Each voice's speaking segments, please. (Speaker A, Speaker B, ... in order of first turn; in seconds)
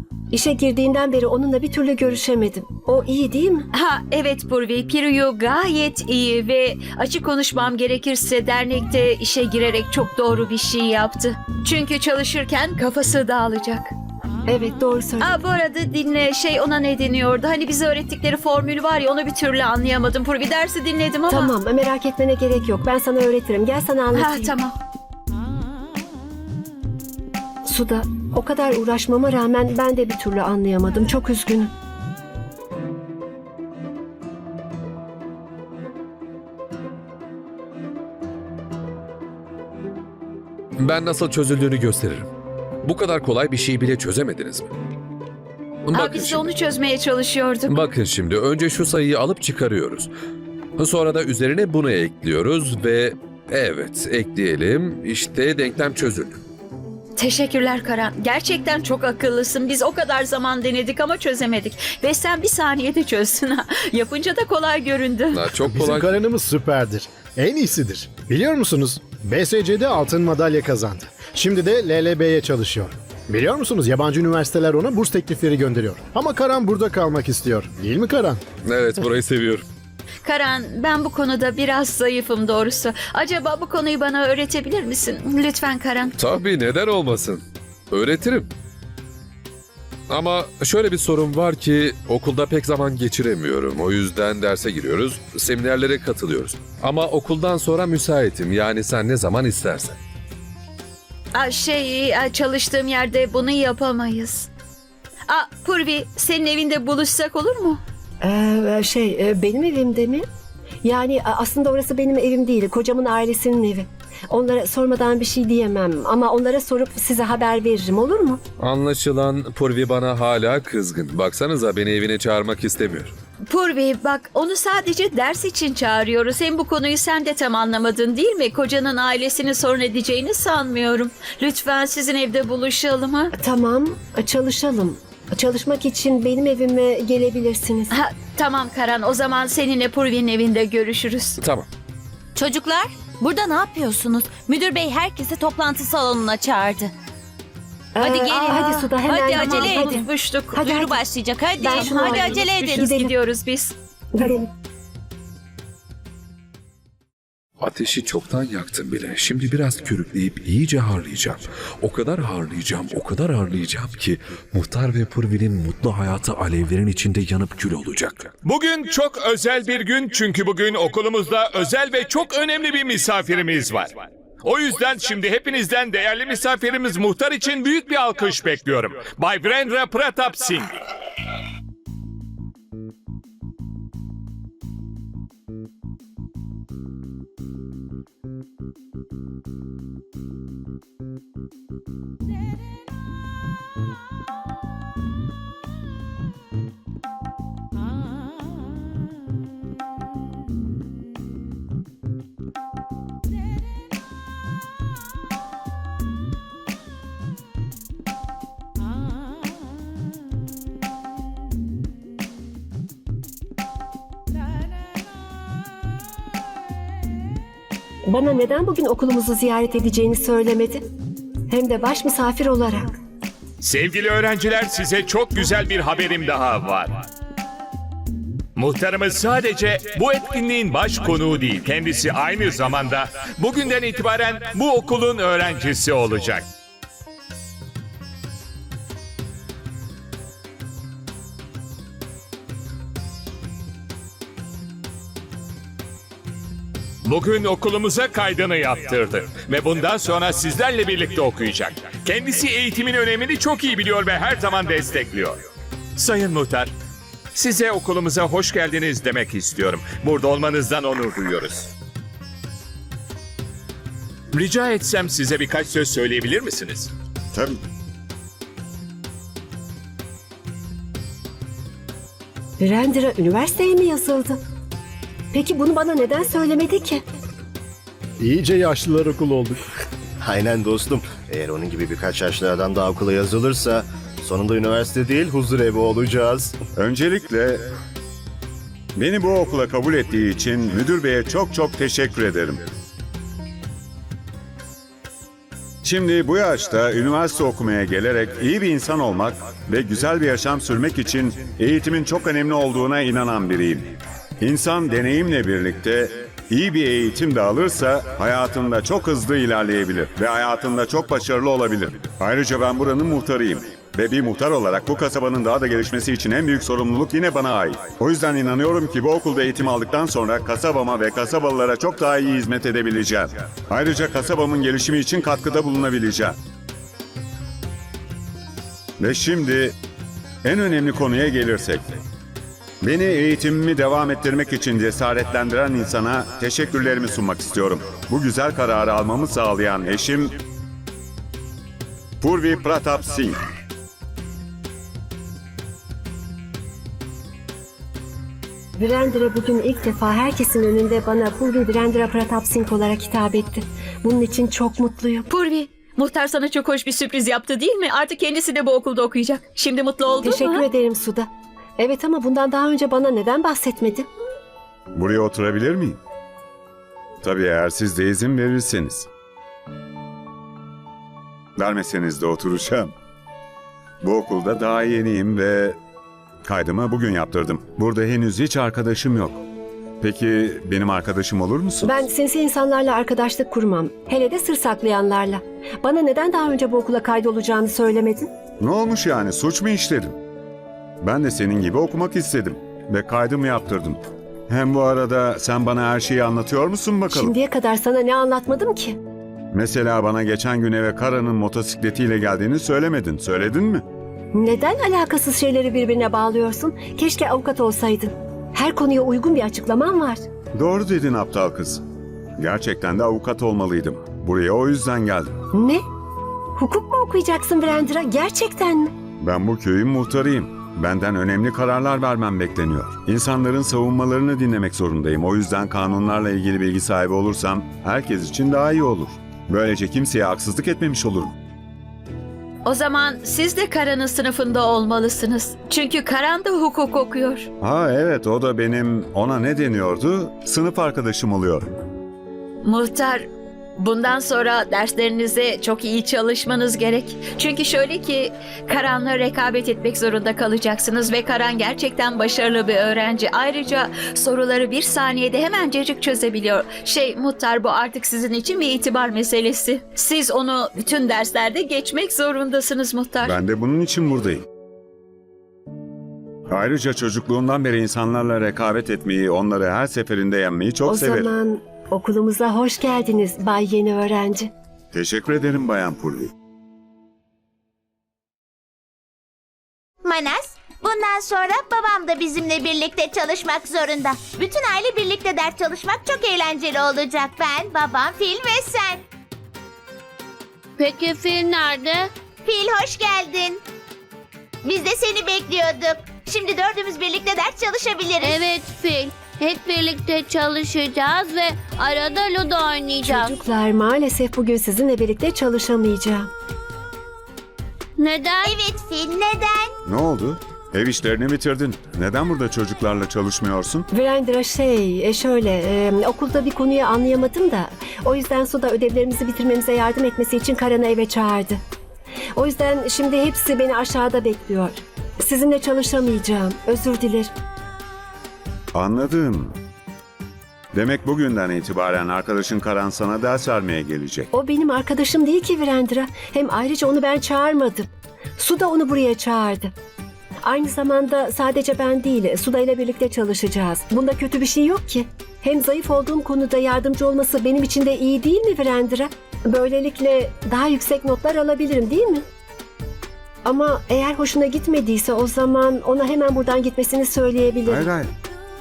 Speaker A: 0.3-3.7, 14.5-15.4, 21.3-24.5, 27.6-31.7, 108.2-110.2, 110.8-118.4, 133.3-137.9, 147.9-150.0, 150.5-151.0, 151.6-153.1, 154.1-154.5, 218.1-220.8, 221.5-222.8, 272.6-274.4, 275.3-277.0, 348.8-355.2, 360.2-364.1, 381.8-388.3, 397.1-399.0, 404.3-410.2, 415.5-415.8, 416.6-418.9, 470.9-474.5, 503.0-506.3, 513.9-521.6, 522.4-527.3, 534.3-539.7, 540.5-552.2, 553.5-557.9
Speaker B: 3.7-13.9, 15.2-21.5, 24.1-24.7, 45.9-47.8, 57.2-65.5, 80.2-86.1, 101.3-104.5, 105.3-107.8, 123.5-133.3, 137.9-141.4, 148.2-150.7, 151.6-153.7, 355.3-360.6, 432.6-437.5, 442.6-443.2, 443.8-463.4
Speaker C: 40.8-42.3, 42.8-44.7, 45.9-46.5, 47.7-50.1, 50.8-56.4, 65.3-66.1, 78.6-79.6, 86.2-88.5, 90.1-100.0, 118.6-123.1, 141.4-141.7, 157.6-168.3
Speaker D: 65.6-78.4, 278.2-279.6
Speaker E: 142.3-146.9, 148.0-150.1, 150.6-152.8
Speaker F: 168.4-180.8, 223.6-227.1, 228.6-236.4, 247.0-255.4, 256.0-256.7, 257.3-261.7, 264.3-266.9
Speaker G: 267.3-267.6, 286.8-287.7, 289.0-292.6, 295.8-326.3, 329.0-329.7, 330.4-332.0, 332.8-340.4, 342.2-343.4, 364.9-366.0, 367.2-369.1, 371.6-372.9, 374.0-375.8, 376.4-379.4, 380.0-382.0, 388.6-390.2, 391.0-397.3, 399.5-403.8, 410.6-411.8, 412.4-415.4, 419.2-431.3, 437.6-441.7, 463.2-464.4, 466.5-471.3, 474.9-476.3, 509.9-513.9, 528.7-529.5, 530.7-534.3, 557.6-558.1
Speaker H: 280.2-286.6
Speaker I: 480.0-489.1, 492.4-493.6, 494.6-498.5, 508.4-509.8
Speaker J: 490.8-492.1, 498.2-503.3, 508.0-508.5